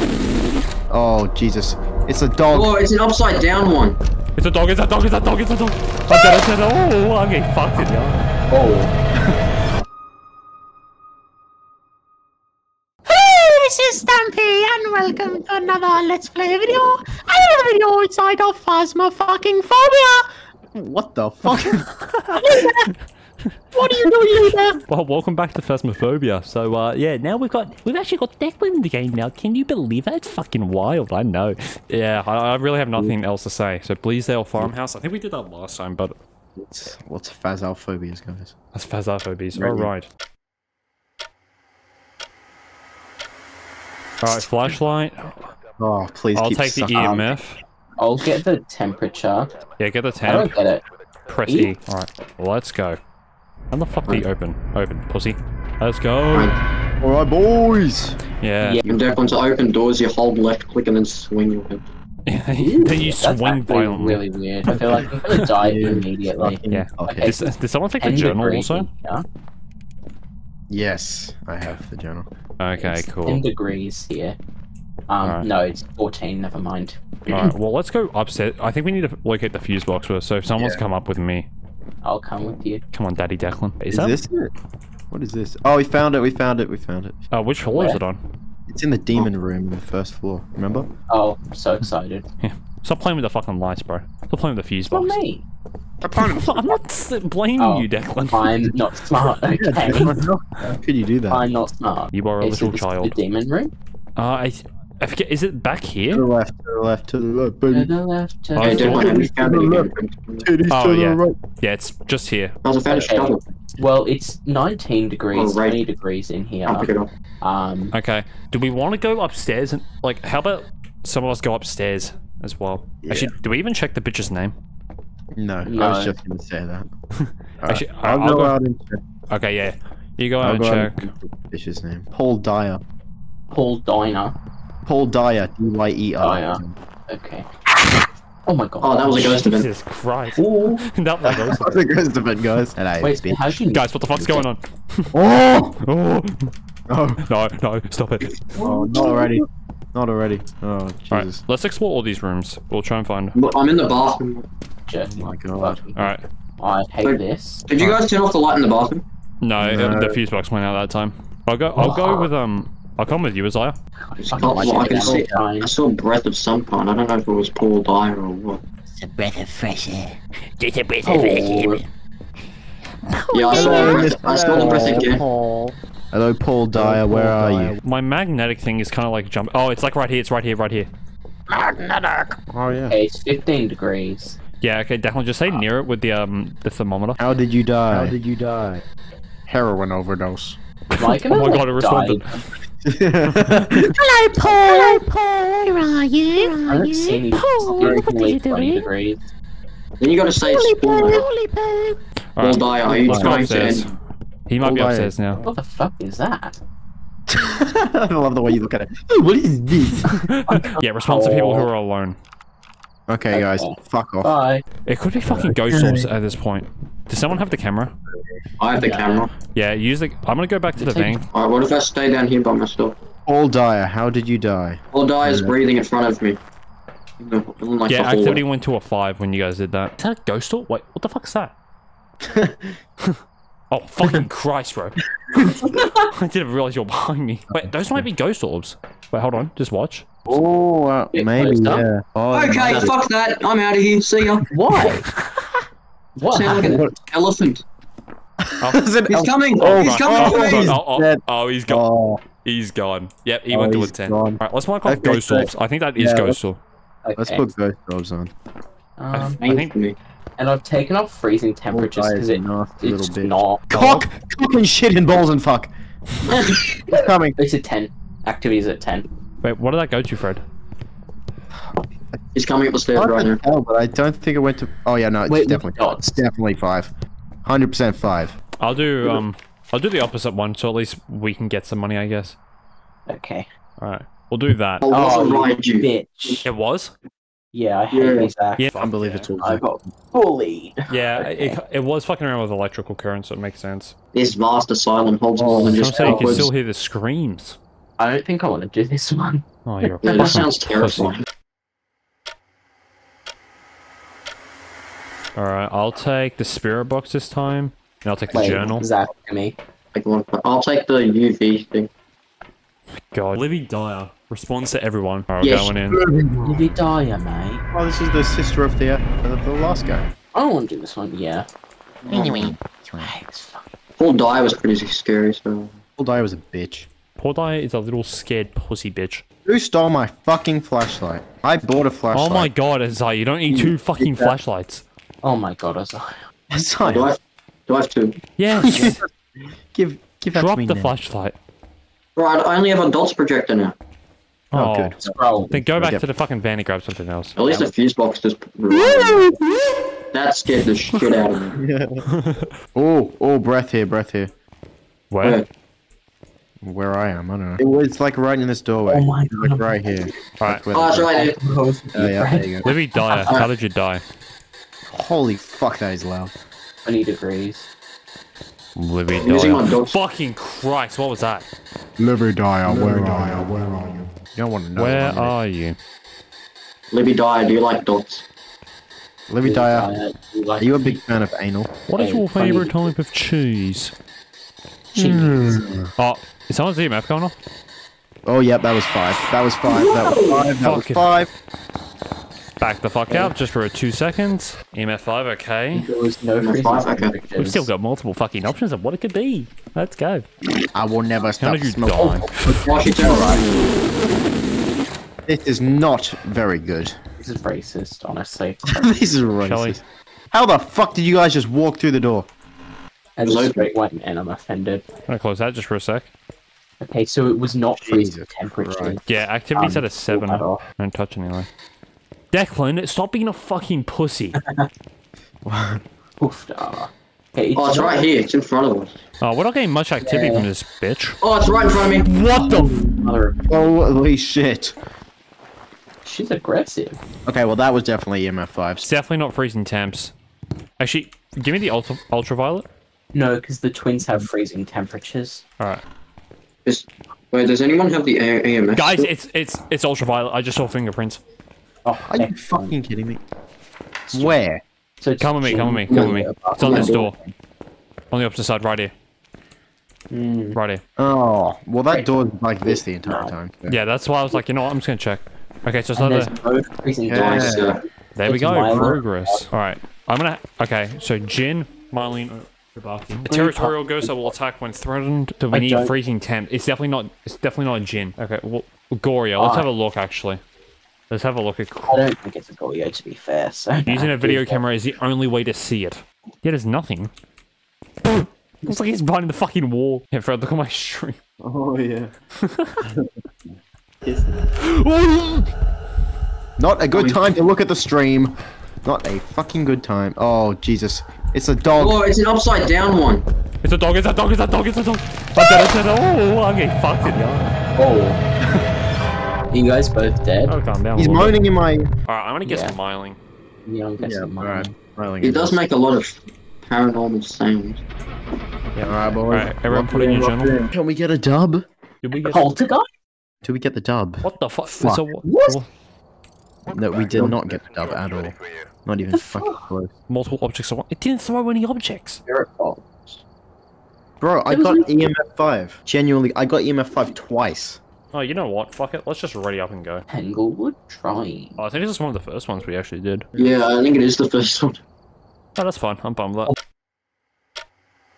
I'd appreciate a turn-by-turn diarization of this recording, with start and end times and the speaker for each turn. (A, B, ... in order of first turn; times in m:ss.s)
0:00.9-0:02.7 A
0:02.5-0:04.0 B
0:04.4-0:08.3 C
0:08.5-0:08.9 D
0:13.1-0:21.8 A
0:21.5-0:22.9 C
0:22.4-0:22.7 A
0:23.8-0:24.8 A
0:24.9-0:36.2 C
0:36.6-0:38.5 A
0:38.7-0:40.1 C
0:39.6-0:39.9 A
0:44.2-0:45.5 C
0:45.8-0:47.2 A
0:46.3-0:47.6 C
0:47.0-0:47.3 D
0:48.0-0:49.5 D
0:49.8-0:50.6 C
0:50.2-0:50.8 D
0:51.3-0:53.0 C
0:51.5-0:51.8 D
0:53.7-0:56.6 C
0:56.3-0:56.6 B
0:57.0-0:58.2 A
0:58.4-0:58.8 C
0:58.6-0:58.9 D
0:58.8-0:59.4 A
0:58.9-1:01.9 B
1:02.3-1:05.4 C
1:02.6-1:09.2 D
1:05.6-1:07.4 A
1:06.7-1:08.9 C
1:10.7-1:12.3 A
1:12.6-1:13.4 C
1:12.8-1:14.4 D
1:15.1-1:17.5 D
1:15.2-1:15.5 C
1:17.3-1:21.5 C
1:20.6-1:20.8 A
1:22.0-1:22.8 D
1:22.9-1:24.2 C
1:23.9-1:24.5 A
1:25.1-1:27.2 A
1:27.3-1:28.2 C
1:27.7-1:28.0 D
1:28.7-1:30.9 A
1:31.1-1:32.2 D
1:32.4-1:35.2 C
1:34.9-1:35.4 D
1:36.0-1:36.8 A
1:36.1-1:38.8 C
1:37.6-1:40.2 D
1:39.5-1:41.5 A
1:41.3-1:43.7 D
1:42.1-1:43.2 C
1:44.2-1:46.2 C
1:46.1-1:47.9 A
1:47.7-1:49.0 D
1:48.6-1:49.2 C
1:48.6-1:50.5 B
1:48.8-1:49.9 A
1:50.4-1:51.4 A
1:50.7-1:52.6 C
1:52.6-1:53.4 B
1:52.9-1:53.3 A
1:53.0-1:57.9 D
1:55.3-1:55.8 B
1:56.7-1:57.1 B
1:57.9-2:04.6 C
2:03.0-2:03.3 A
2:05.4-2:06.9 A
2:05.6-2:06.2 D
2:07.2-2:08.6 C
2:07.6-2:09.0 A
2:09.3-2:11.1 C
2:10.4-2:12.8 A
2:13.5-2:14.4 D
2:14.9-2:16.8 A
2:16.2-2:17.5 D
2:18.5-2:19.4 D
2:18.8-2:19.7 B
2:19.2-2:21.8 C
2:20.4-2:20.9 D
2:21.2-2:23.6 A
2:23.0-2:24.5 D
2:23.7-2:25.1 C
2:25.1-2:25.8 A
2:25.8-2:26.5 C
2:26.9-2:27.2 A
2:27.2-2:28.3 C
2:28.6-2:29.4 D
2:28.6-2:31.4 A
2:31.1-2:33.4 C
2:33.4-2:34.5 B
2:34.9-2:37.7 D
2:35.1-2:35.8 A
2:36.0-2:36.2 C
2:37.0-2:39.0 B
2:39.4-2:43.8 C
2:39.6-2:40.2 A
2:41.8-2:42.3 D
2:44.0-2:45.7 D
2:44.2-2:48.6 B
2:44.4-2:45.4 A
2:49.0-2:51.8 E
2:51.0-2:51.8 D
2:53.2-2:54.0 E
2:53.3-2:55.2 B
2:53.5-2:57.8 A
2:56.7-3:00.9 C
3:01.5-3:03.0 A
3:02.9-3:04.4 D
3:04.6-3:07.2 C
3:07.2-3:08.5 A
3:07.9-3:08.2 C
3:09.5-3:10.6 A
3:10.9-3:12.3 C
3:11.0-3:12.5 D
3:12.8-3:15.1 A
3:13.3-3:13.8 C
3:14.3-3:15.2 E
3:15.6-3:17.1 A
3:15.8-3:18.8 E
3:16.6-3:19.2 D
3:17.6-3:18.2 A
3:20.0-3:21.2 B
3:20.5-3:21.5 A
3:22.4-3:23.9 C
3:22.4-3:23.9 B
3:22.9-3:23.8 A
3:24.5-3:25.4 C
3:24.6-3:25.1 A
3:25.4-3:26.6 D
3:27.3-3:30.2 A
3:30.0-3:32.2 C
3:30.5-3:31.7 D
3:33.1-3:34.3 A
3:33.3-3:34.6 D
3:34.9-3:38.0 C
3:35.3-3:36.1 A
3:38.6-3:39.3 B
3:38.7-3:39.3 D
3:39.5-3:41.3 C
3:40.8-3:41.2 D
3:41.3-3:43.0 B
3:43.3-3:45.5 A
3:44.9-3:46.4 B
3:47.2-3:48.4 B
3:47.9-3:51.5 C
3:52.2-3:52.8 A
3:53.7-3:55.0 C
3:55.6-3:56.1 D
3:56.1-4:00.1 C
3:57.5-3:58.0 A
4:00.3-4:03.0 A
4:01.1-4:01.8 D
4:02.3-4:04.5 B
4:04.5-4:05.1 D
4:06.2-4:06.9 D
4:06.3-4:07.6 B
4:06.5-4:06.9 A
4:08.4-4:12.2 A
4:08.6-4:08.9 C
4:09.1-4:10.7 B
4:09.6-4:11.8 C
4:12.4-4:16.6 C
4:13.5-4:16.4 A
4:17.0-4:17.4 D
4:17.2-4:18.3 A
4:19.0-4:19.4 D
4:19.1-4:19.7 C
4:19.4-4:20.0 B
4:20.4-4:23.6 D
4:21.7-4:27.4 A
4:23.7-4:24.1 C
4:26.3-4:26.8 B
4:27.4-4:29.1 D
4:29.4-4:30.4 C
4:32.4-4:33.4 B
4:32.9-4:36.9 A
4:35.3-4:36.2 D
4:37.4-4:38.4 A
4:38.6-4:42.4 C
4:43.1-4:43.5 D
4:43.8-4:44.8 C
4:44.8-4:46.4 B
4:44.9-4:46.5 D
4:46.4-4:46.9 C
4:47.5-4:48.7 D
4:47.9-4:48.3 B
4:48.6-4:49.3 C
4:48.8-4:49.9 A
4:49.4-4:51.6 D
4:50.9-4:54.0 C
4:54.1-4:56.5 B
4:55.4-4:56.4 A
4:55.6-4:57.6 C
4:56.0-4:56.5 D
4:58.0-5:00.5 D
4:59.6-5:01.2 C
5:00.0-5:01.2 B
5:05.4-5:08.8 C
5:08.3-5:09.6 D
5:09.9-5:11.9 B
5:13.1-5:16.0 C
5:15.4-5:15.7 B
5:15.9-5:16.7 A
5:16.4-5:17.6 D
5:17.7-5:20.1 A
5:20.3-5:21.5 D
5:22.0-5:22.5 B
5:22.1-5:23.1 A
5:23.0-5:23.7 D
5:24.0-5:25.8 B
5:26.0-5:26.9 A
5:27.2-5:29.2 C
5:29.4-5:32.5 A
5:32.1-5:34.8 C
5:33.5-5:34.4 A
5:35.2-5:36.2 D
5:36.5-5:37.1 A
5:36.8-5:38.2 B
5:38.4-5:39.0 C
5:38.5-5:39.1 A
5:39.7-5:40.9 A
5:40.3-5:41.4 C
5:42.2-5:43.8 B
5:44.5-5:47.4 C
5:44.5-5:46.0 A
5:45.1-5:45.5 D
5:47.4-5:49.3 B
5:50.1-5:51.6 B
5:51.6-5:52.1 A
5:52.1-5:52.5 C
5:52.8-5:54.3 A
5:55.1-5:55.4 C
5:56.6-6:01.1 A
5:58.9-5:59.8 D
6:00.4-6:00.6 C
6:00.7-6:01.4 B
6:01.1-6:03.3 D
6:01.9-6:02.7 A
6:02.6-6:04.0 C
6:04.9-6:06.4 A
6:06.8-6:07.7 D
6:08.8-6:11.5 C
6:09.2-6:10.0 B
6:12.1-6:15.4 A
6:14.8-6:15.8 C
6:16.9-6:18.2 B
6:19.3-6:19.9 A
6:19.4-6:21.0 D
6:20.6-6:21.7 A
6:21.9-6:23.9 C
6:21.9-6:22.9 D
6:25.0-6:25.9 A
6:25.0-6:25.5 D
6:26.0-6:27.4 C
6:28.3-6:31.3 A
6:29.7-6:30.5 B
6:30.6-6:31.1 C
6:32.6-6:35.9 C
6:35.7-6:37.7 D
6:36.4-6:37.2 B
6:37.4-6:40.3 C
6:40.7-6:43.5 A
6:41.4-6:42.4 C
6:42.0-6:42.3 D
6:42.6-6:43.5 B
6:45.3-6:47.0 A
6:47.2-6:48.9 D
6:48.7-6:52.3 A
6:49.4-6:49.8 C
6:53.2-6:54.9 D
6:53.2-6:53.7 B
6:55.1-6:56.1 C
6:56.8-7:00.6 D
6:57.8-6:59.0 A
6:59.1-7:01.5 C
7:02.3-7:04.4 C
7:04.4-7:04.7 D
7:05.4-7:05.8 A
7:06.2-7:08.1 D
7:07.6-7:09.0 B
7:09.2-7:11.2 C
7:10.0-7:10.5 D
7:11.2-7:12.1 B
7:12.0-7:12.9 C
7:12.9-7:13.4 D
7:13.5-7:14.8 A
7:16.0-7:17.0 D
7:17.3-7:18.9 A
7:18.8-7:20.1 C
7:20.8-7:22.7 C
7:23.1-7:25.4 D
7:26.6-7:29.1 B
7:28.7-7:31.2 C
7:31.8-7:32.8 D
7:32.1-7:33.2 A
7:34.1-7:34.4 D
7:34.1-7:34.6 A
7:35.0-7:37.3 D
7:35.2-7:37.2 C
7:35.9-7:37.0 B
7:38.1-7:38.9 C
7:40.1-7:40.6 D
7:40.5-7:40.8 C
7:41.0-7:43.8 A
7:41.9-7:43.3 D
7:43.7-7:46.3 C
7:45.9-7:47.7 D
7:47.1-7:47.7 A
7:47.1-7:47.8 B
7:48.2-8:00.4 C
7:48.2-7:49.5 D
7:53.2-7:54.3 D
7:55.5-7:55.9 D
7:59.4-7:59.7 D
8:01.1-8:02.1 C
8:01.9-8:04.6 D
8:03.8-8:07.1 C
8:08.1-8:11.2 C
8:11.4-8:12.1 A
8:12.4-8:12.8 C
8:12.8-8:13.2 A
8:14.0-8:14.6 A
8:14.8-8:15.4 C
8:16.6-8:22.0 A
8:17.0-8:17.3 B
8:21.8-8:23.2 B
8:23.6-8:27.5 C
8:27.8-8:28.2 D
8:29.5-8:30.6 D
8:30.5-8:31.4 C
8:31.0-8:31.9 A
8:32.1-8:33.2 C
8:32.4-8:32.8 D
8:33.7-8:34.7 D
8:34.0-8:35.6 A
8:35.2-8:37.8 B
8:38.7-8:40.6 C
8:38.8-8:41.6 A
8:42.0-8:42.6 C
8:42.2-8:42.9 D
8:43.4-8:45.0 A
8:44.2-8:45.7 C
8:45.2-8:45.6 D
8:46.7-8:49.9 A
8:49.1-8:49.6 D
8:50.1-8:52.2 C
8:52.3-8:53.2 D
8:54.2-8:57.8 A
8:54.5-8:55.1 D
8:58.1-9:00.0 C
9:00.1-9:01.6 D
9:01.6-9:03.3 C
9:03.4-9:03.6 A
9:03.4-9:04.8 B
9:05.6-9:06.6 C